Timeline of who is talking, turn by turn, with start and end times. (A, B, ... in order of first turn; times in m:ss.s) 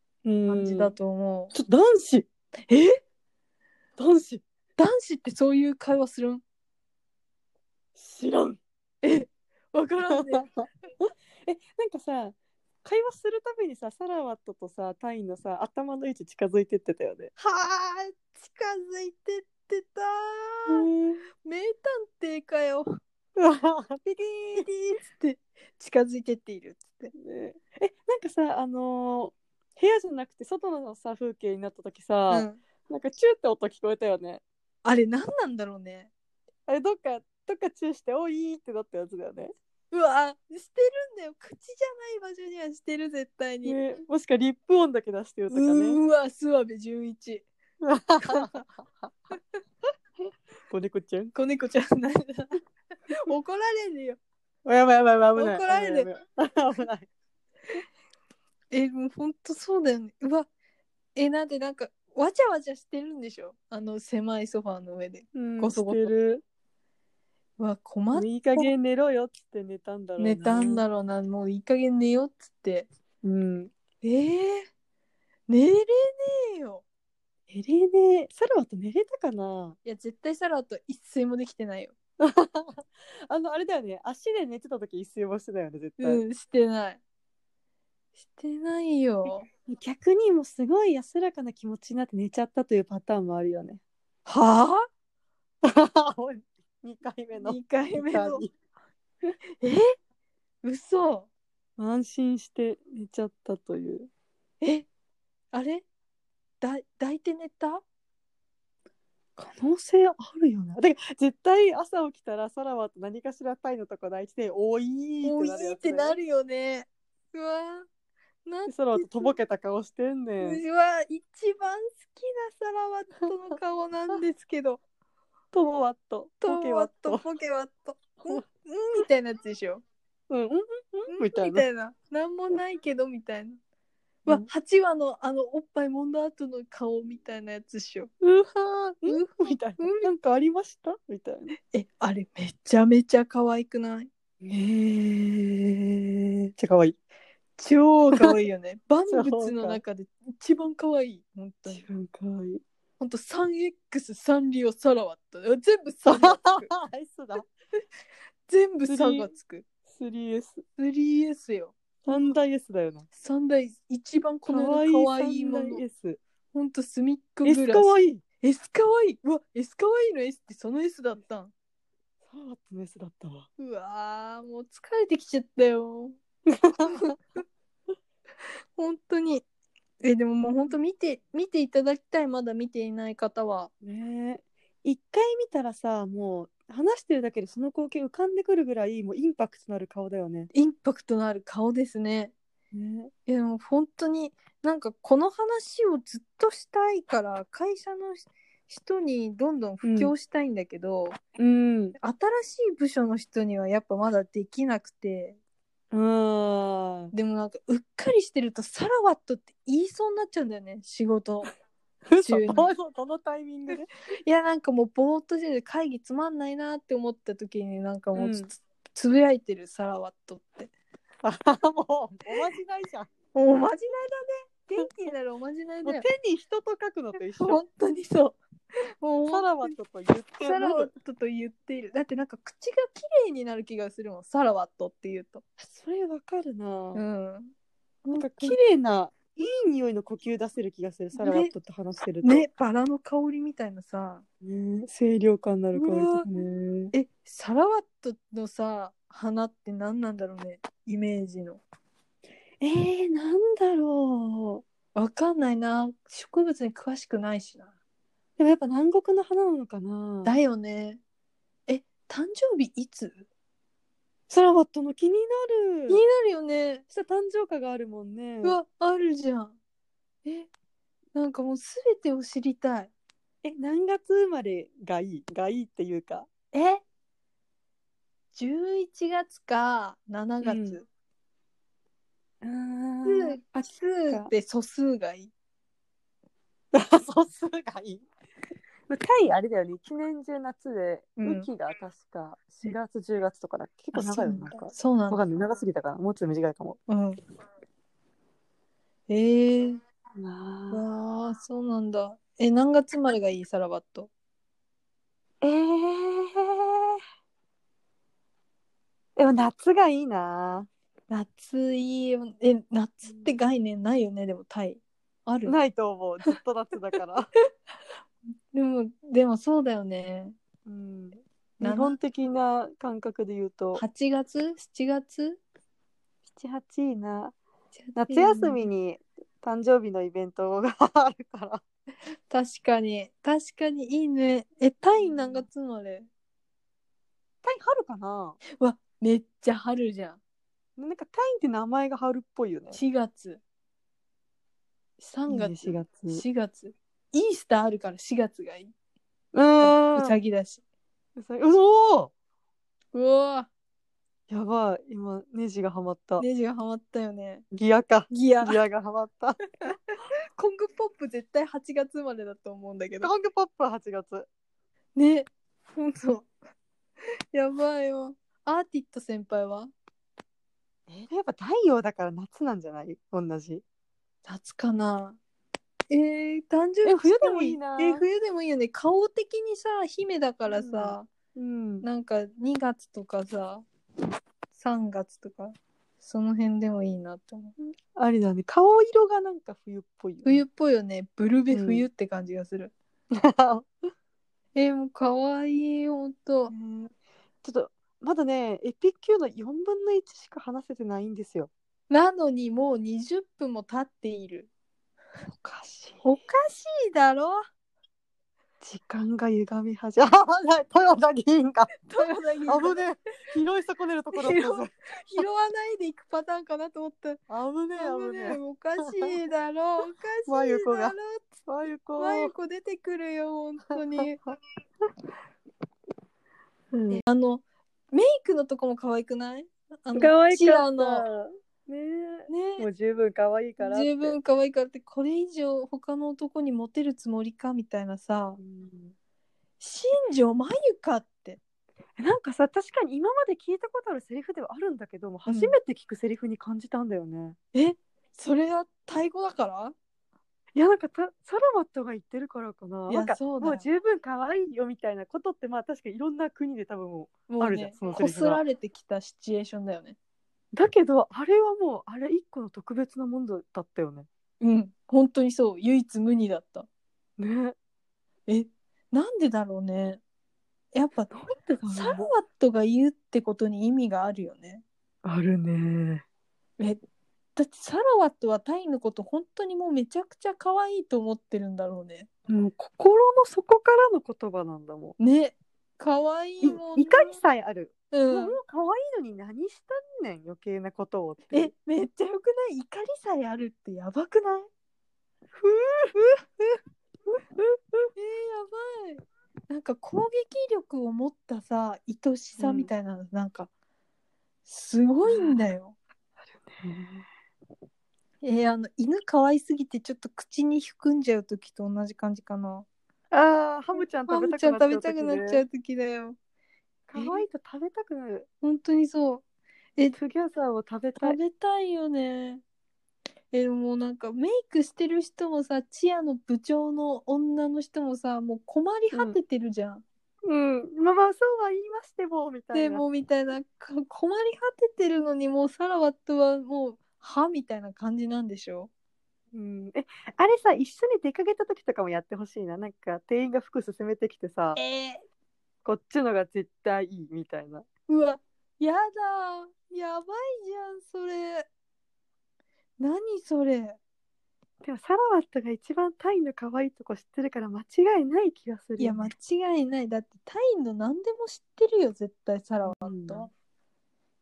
0:00.2-0:01.0 A
0:00.5-0:01.5 B
0:01.5-0:02.3 A
0:02.7-0:03.0 B
0:04.0-0:04.4 A
0:04.8-0:06.4 B
0:07.9-0:08.6 A
0:09.0-0:10.5 B
0:10.1-0:17.3 A
0:17.4-0:20.8 B
0:20.7-0:21.2 A
0:21.4-0:22.8 B
0:23.4-0:24.7 A
0:24.5-0:27.1 B
0:27.1-0:34.4 A
0:32.3-0:32.6 B
0:34.8-0:36.1 B
0:36.7-0:39.5 A
0:39.9-0:43.8 B
0:43.6-0:46.0 A
0:45.5-0:47.4 B
0:47.8-0:48.6 A
0:48.2-0:48.6 B
0:50.7-0:51.3 A
0:51.3-0:52.5 B
0:53.1-0:54.2 B
0:54.6-0:57.1 A
0:55.4-0:56.1 B
0:58.7-1:00.5 B
1:01.2-1:06.1 B
1:05.3-1:06.4 A
1:07.6-1:08.7 B
1:08.1-1:10.8 A
1:10.2-1:12.9 B
1:13.2-1:13.7 A
1:14.0-1:14.7 B
1:15.5-1:16.8 B
1:17.5-1:19.8 A
1:19.8-1:21.9 B
1:22.2-1:26.2 A
1:26.0-1:27.0 B
1:28.2-1:29.5 B
1:29.6-1:33.8 A
1:34.2-1:34.8 B
1:35.6-1:38.5 A
1:37.4-1:38.4 B
1:40.6-1:41.3 B
1:41.8-1:44.1 A
1:44.6-1:44.9 B
1:45.5-1:45.8 B
1:46.6-1:47.8 B
1:49.4-1:56.2 A
1:55.2-1:57.9 B
1:58.4-1:59.3 B
1:58.7-2:00.6 A
2:00.4-2:04.8 B
2:05.5-2:07.2 A
2:06.4-2:09.8 B
2:10.3-2:11.6 A
2:11.1-2:13.6 B
2:14.2-2:18.1 B
2:18.2-2:21.5 A
2:19.0-2:20.1 B
2:21.7-2:24.1 B
2:24.4-2:27.0 A
2:27.6-2:31.8 B
2:29.1-2:29.8 A
2:31.7-2:32.6 A
2:33.0-2:36.7 B
2:36.0-2:37.4 A
2:38.5-2:39.6 B
2:38.8-2:39.3 A
2:39.8-2:40.6 A
2:40.8-2:41.7 B
2:42.0-2:43.0 A
2:43.1-2:45.8 B
2:44.5-2:46.2 A
2:46.5-2:51.5 B
2:47.4-2:48.2 A
2:52.2-2:53.5 A
2:53.6-2:56.2 B
2:56.5-2:57.1 A
2:56.9-2:57.1 B
2:58.8-2:59.4 B
3:00.0-3:03.7 B
3:03.8-3:10.5 A
3:10.5-3:12.3 B
3:12.7-3:13.1 A
3:13.2-3:21.2 B
3:19.8-3:20.1 A
3:21.4-3:21.9 A
3:22.0-3:25.4 B
3:25.9-3:27.1 A
3:27.1-3:31.5 B
3:32.1-3:33.9 A
3:32.2-3:32.7 B
3:34.2-3:40.7 B
3:38.1-3:38.5 A
3:41.2-3:43.1 A
3:43.3-3:46.1 B
3:45.8-3:47.6 A
3:47.4-3:48.4 B
3:49.0-3:49.7 B
3:49.3-3:50.9 A
3:50.4-3:55.4 B
3:55.6-3:57.0 A
3:56.9-3:57.5 B
3:58.0-3:58.6 B
3:58.1-4:02.4 A
4:01.2-4:01.5 B
4:02.2-4:04.2 B
4:04.4-4:06.9 A
4:05.7-4:06.3 B
4:06.9-4:11.6 B
4:12.6-4:14.6 A
4:14.9-4:17.7 B
4:18.4-4:20.3 A
4:20.2-4:21.0 B
4:21.7-4:23.2 B
4:24.3-4:26.0 A
4:25.9-4:26.8 B
4:26.9-4:28.6 A
4:28.4-4:29.6 B
4:31.1-4:32.9 B
4:33.4-4:36.3 A
4:36.5-4:36.8 B
4:38.3-4:40.8 B
4:40.4-4:40.8 A
4:42.4-4:44.3 A
4:43.0-4:45.3 B
4:46.7-4:48.0 A
4:48.9-4:56.8 A
4:51.2-4:51.5 B
4:53.9-4:55.2 B
4:56.9-4:57.2 B
4:59.1-4:59.8 B
5:00.2-5:00.8 A
5:00.7-5:04.1 B
5:05.4-5:07.0 A
5:09.2-5:10.7 A
5:11.1-5:15.6 B
5:15.4-5:17.3 A
5:18.5-5:20.4 B
5:20.6-5:23.8 A
5:21.6-5:22.0 B
5:23.7-5:25.4 B
5:26.3-5:27.3 A
5:27.8-5:28.7 B
5:27.9-5:31.6 A
5:32.3-5:36.1 B
5:35.0-5:35.4 A
5:37.4-5:38.4 A
5:38.6-5:40.2 B
5:40.8-5:42.8 A
5:42.7-5:43.4 B
5:45.0-5:48.7 B
5:45.3-5:46.2 A
5:49.3-5:50.2 A
5:49.6-5:50.6 B
5:51.2-5:52.1 A
5:52.9-5:53.5 B
5:54.3-5:56.2 A
5:56.2-5:57.4 B
5:57.5-5:59.4 A
5:58.1-5:58.6 B
6:00.4-6:03.1 B
6:03.0-6:04.3 A
6:05.0-6:06.3 B
6:07.3-6:09.7 B
6:10.9-6:13.6 A
6:14.2-6:15.2 B
6:15.9-6:21.1 B
6:16.8-6:18.0 A
6:20.5-6:21.9 A
6:21.8-6:23.6 B
6:24.5-6:27.5 B
6:27.6-6:30.4 A
6:30.2-6:32.7 B
6:31.5-6:31.8 A
6:33.1-6:33.6 A
6:34.5-6:36.5 B
6:36.5-6:41.5 A
6:41.9-6:44.5 B
6:45.3-6:46.0 A
6:46.0-6:47.4 B
6:48.6-6:54.7 A
6:51.8-6:52.9 B
6:54.1-6:57.2 B
6:57.3-6:59.1 A
6:57.7-7:01.3 B
7:00.2-7:02.3 A
7:02.0-7:04.2 B
7:06.7-7:07.0 A
7:06.9-7:11.1 B
7:09.9-7:14.2 A
7:12.3-7:12.7 B
7:13.6-7:18.4 B
7:18.4-7:18.9 A
7:19.6-7:21.4 B
7:22.0-7:27.4 A
7:25.2-7:25.6 B
7:27.5-7:29.7 B
7:30.5-7:38.4 A
7:32.9-7:33.6 B
7:37.3-7:40.0 B
7:40.5-7:44.1 A
7:44.4-7:46.7 B
7:47.2-7:47.6 A
7:48.3-7:50.0 B
7:50.7-7:51.1 B
7:51.1-7:52.1 A
7:51.7-7:54.6 B
7:55.0-7:56.0 A
7:57.4-8:02.1 B
8:02.3-8:05.0 A
8:05.0-8:07.2 B
8:06.4-8:11.5 A
8:07.9-8:08.4 B
8:11.3-8:14.5 B
8:15.9-8:16.6 B
8:18.0-8:23.5 B
8:22.4-8:22.7 A
8:24.4-8:25.7 B
8:25.0-8:25.4 A
8:26.2-8:27.1 A
8:28.2-8:32.6 B
8:33.1-8:35.4 A
8:33.7-8:36.2 B
8:36.9-8:38.3 A
8:36.9-8:37.2 B
8:38.4-8:39.2 B
8:39.9-8:41.2 A
8:41.0-8:42.4 B
8:43.3-8:49.8 B
8:48.9-8:49.2 A
8:50.2-8:52.8 A
8:52.5-8:58.7 B
8:59.3-9:04.6 A
9:04.5-9:05.0 B
9:05.6-9:07.6 A
9:07.9-9:11.5 B
9:12.8-9:13.8 B
9:14.6-9:19.1 A
9:18.8-9:23.3 B
9:22.6-9:23.3 A